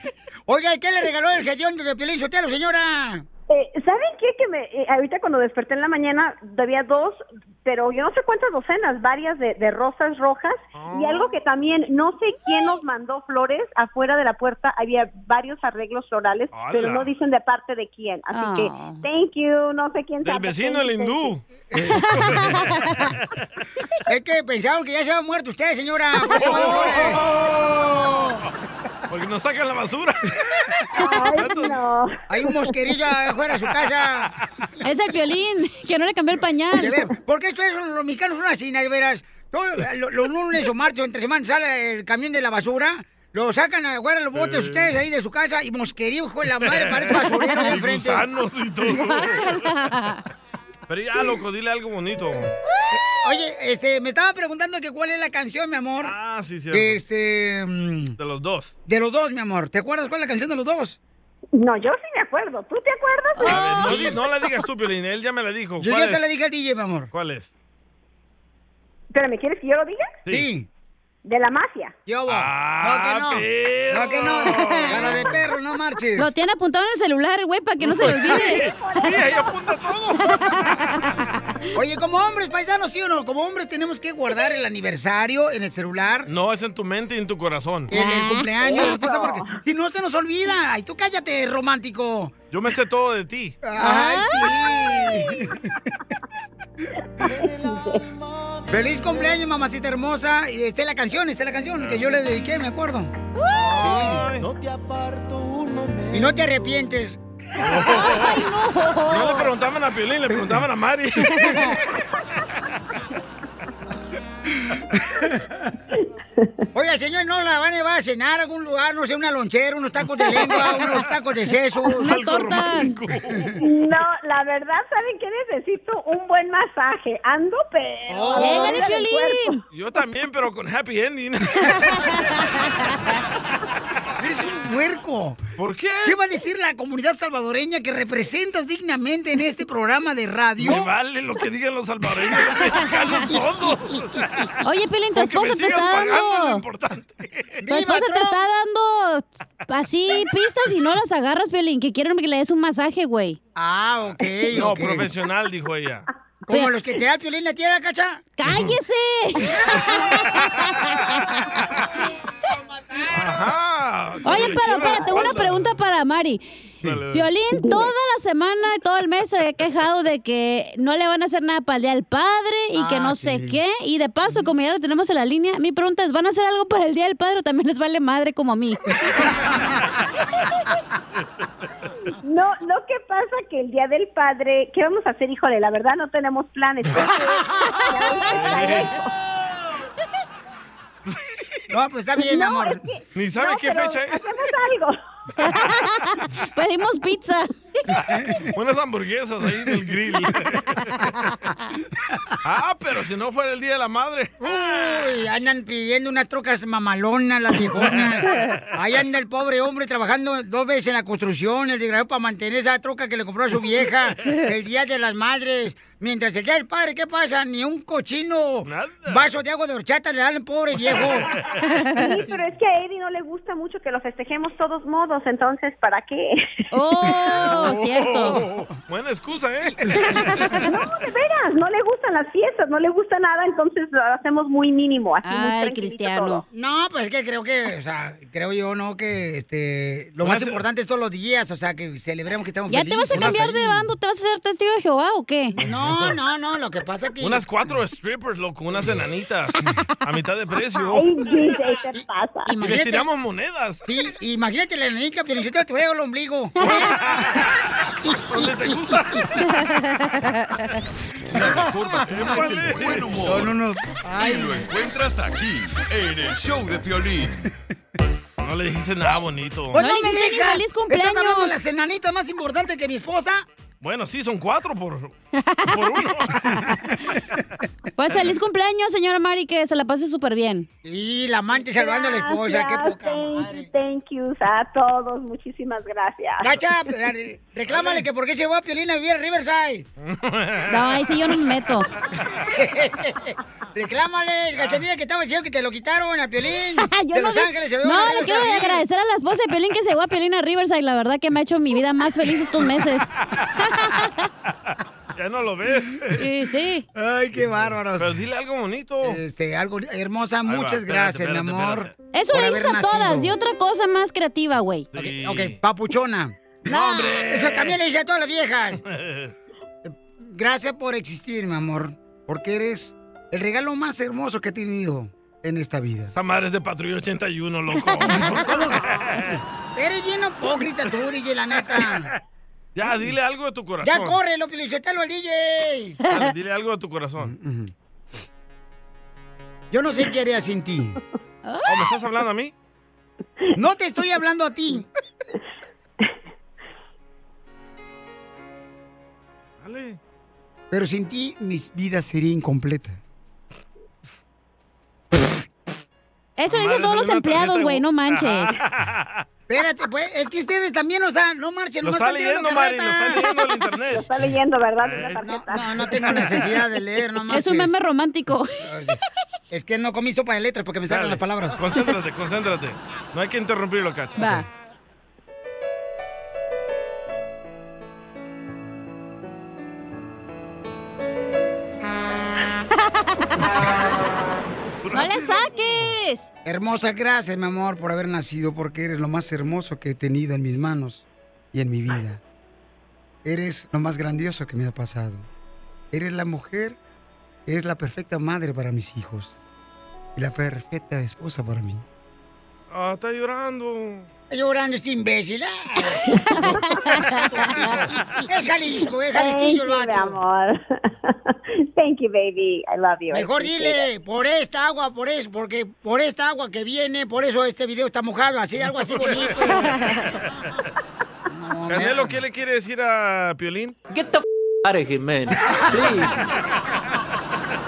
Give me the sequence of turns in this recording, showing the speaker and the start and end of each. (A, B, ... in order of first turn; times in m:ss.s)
0:00.5-0:03.2 A
0:03.5-0:21.3 B
0:10.7-0:11.4 C
0:16.5-0:17.1 C
0:18.3-0:19.0 D
0:20.2-0:23.2 C
0:21.7-0:22.6 A
0:22.0-0:22.9 D
0:24.1-0:27.2 A
0:26.2-0:28.3 C
0:26.3-0:27.2 D
0:29.1-0:30.6 C
0:30.9-0:32.7 B
0:31.0-0:31.2 D
0:31.2-0:31.8 C
0:32.3-0:34.3 A
0:33.8-0:34.2 C
0:34.8-0:37.0 D
0:36.7-0:48.2 A
0:44.3-0:44.9 C
0:46.5-0:49.7 C
0:48.9-0:50.2 D
0:50.9-0:52.5 C
0:52.9-0:56.1 A
0:56.0-0:57.0 C
0:56.7-0:58.1 A
0:58.2-0:58.7 C
0:58.9-1:01.0 A
1:01.6-1:04.1 B
1:03.4-1:04.2 D
1:03.4-1:06.2 C
1:05.8-1:07.1 A
1:07.1-1:07.5 C
1:09.1-1:10.1 B
1:10.3-1:10.7 A
1:11.2-1:11.9 B
1:12.1-1:16.3 A
1:12.3-1:15.4 C
1:14.5-1:15.1 D
1:16.2-1:19.1 D
1:17.8-1:21.1 C
1:18.2-1:19.2 B
1:20.2-1:20.8 D
1:21.8-1:26.3 A
1:26.2-1:27.9 C
1:27.9-1:32.3 A
1:27.9-1:28.9 D
1:28.6-1:29.6 B
1:32.5-1:33.6 C
1:33.6-1:35.7 A
1:33.8-1:34.6 D
1:37.2-1:38.0 B
1:38.7-1:43.1 A
1:41.8-1:42.2 C
1:43.3-1:43.8 D
1:43.6-1:44.5 C
1:43.8-1:44.2 A
1:46.1-1:48.1 A
1:47.6-1:48.4 C
1:47.8-1:49.5 D
1:49.1-1:51.7 C
1:51.3-1:51.8 D
1:54.7-1:55.3 A
1:56.4-1:56.6 B
1:56.7-2:02.1 A
2:02.0-2:03.7 C
2:02.0-2:03.0 D
2:03.3-2:03.6 A
2:03.6-2:09.6 B
2:08.1-2:08.9 A
2:08.3-2:09.6 D
2:09.7-2:12.2 C
2:11.6-2:13.0 D
2:14.2-2:15.4 A
2:15.6-2:16.2 C
2:16.0-2:20.9 A
2:20.6-2:24.5 C
2:23.0-2:23.3 D
2:24.6-2:26.6 D
2:25.1-2:27.6 C
2:27.6-2:28.4 A
2:27.7-2:33.4 D
2:33.6-2:35.1 A
2:34.5-2:36.1 C
2:36.5-2:38.2 A
2:38.4-2:41.6 D
2:38.4-2:38.8 C
2:43.1-2:45.8 C
2:44.2-2:46.4 D
2:46.8-2:47.3 C
2:47.1-2:58.8 D
2:52.7-2:53.6 A
3:02.2-3:09.1 B
3:07.6-3:08.3 D
3:08.3-3:08.9 C
3:11.7-3:12.8 A
3:12.2-3:15.0 B
3:13.1-3:14.3 C
3:15.4-3:17.5 D
3:17.9-3:21.2 C
3:22.4-3:25.0 C
3:24.4-3:41.3 A
3:27.8-3:28.3 C
3:38.6-3:39.3 C
3:40.8-3:41.4 C
3:41.6-3:42.2 D
3:42.0-3:46.6 B
3:46.7-3:48.4 D
3:47.1-3:50.2 C
3:50.1-3:50.7 D
3:50.6-3:56.4 B
3:55.2-3:56.4 D
3:56.5-4:03.9 A
4:00.2-4:00.6 C
4:02.7-4:05.5 D
4:03.1-4:03.4 C
4:05.6-4:07.4 A
4:05.6-4:06.2 C
4:07.2-4:11.5 C
4:10.9-4:12.5 B
4:12.0-4:13.1 A
4:12.6-4:13.8 C
4:13.8-4:16.9 A
4:16.6-4:17.6 C
4:18.0-4:19.2 A
4:18.3-4:19.4 C
4:20.2-4:20.6 D
4:21.3-4:23.6 E
4:22.1-4:23.4 C
4:23.2-4:24.6 A
4:24.1-4:27.5 E
4:28.4-4:29.8 C
4:29.7-4:33.4 A
4:29.8-4:31.6 D
4:33.8-4:35.1 C
4:35.4-4:36.1 D
4:35.7-4:36.6 C
4:38.0-4:40.7 D
4:40.8-4:43.7 A
4:41.7-4:46.5 B
4:46.4-4:49.8 A
4:47.7-4:48.0 C
4:50.0-4:51.7 C
4:50.7-4:51.9 D
4:52.5-4:58.8 A
4:54.5-4:54.8 C
4:56.8-5:03.0 D
5:03.6-5:04.3 D
5:04.7-5:06.2 C
5:06.2-5:06.8 D
5:07.0-5:08.2 A
5:07.4-5:09.2 C
5:09.0-5:13.3 A
5:10.4-5:11.9 C
5:12.1-5:14.9 D
5:14.9-5:15.6 C
5:15.0-5:18.8 A
5:16.7-5:17.8 C
5:16.7-5:17.1 D
5:18.9-5:19.3 C
5:19.8-5:26.1 A
5:26.1-5:29.4 C
5:27.8-5:28.2 D
5:28.1-5:28.8 A
5:29.8-5:32.1 A
5:32.7-5:34.2 C
5:33.8-5:36.0 A
5:36.1-5:37.3 C
5:37.2-5:37.7 A
5:39.7-5:41.0 A
5:41.4-5:41.9 D
5:41.6-5:42.5 C
5:43.6-5:44.8 A
5:49.6-5:50.0 C
5:50.7-5:53.0 A
5:56.4-5:58.6 D
5:56.4-5:59.2 C
5:59.5-6:03.3 A
6:01.8-6:04.2 C
6:03.9-6:05.9 B
6:04.8-6:05.2 C
6:05.2-6:07.7 A
6:05.8-6:06.6 C
6:07.3-6:08.7 D
6:08.6-6:09.0 A
6:09.5-6:11.6 A
6:10.9-6:14.4 C
6:14.2-6:14.5 D
6:24.8-6:25.4 C
6:24.9-6:26.3 D
6:26.4-6:32.2 A
6:33.2-6:35.3 A
6:35.9-6:36.8 A
6:37.5-6:39.3 A
6:40.2-6:41.8 A
6:42.7-6:44.1 C
6:44.3-6:50.2 A
6:46.3-6:47.5 D
6:47.6-6:48.2 C
6:49.1-6:53.8 B
6:53.1-6:59.7 A
6:58.7-6:59.7 C
7:01.3-7:02.2 A
7:01.7-7:03.7 C
7:03.9-7:06.2 F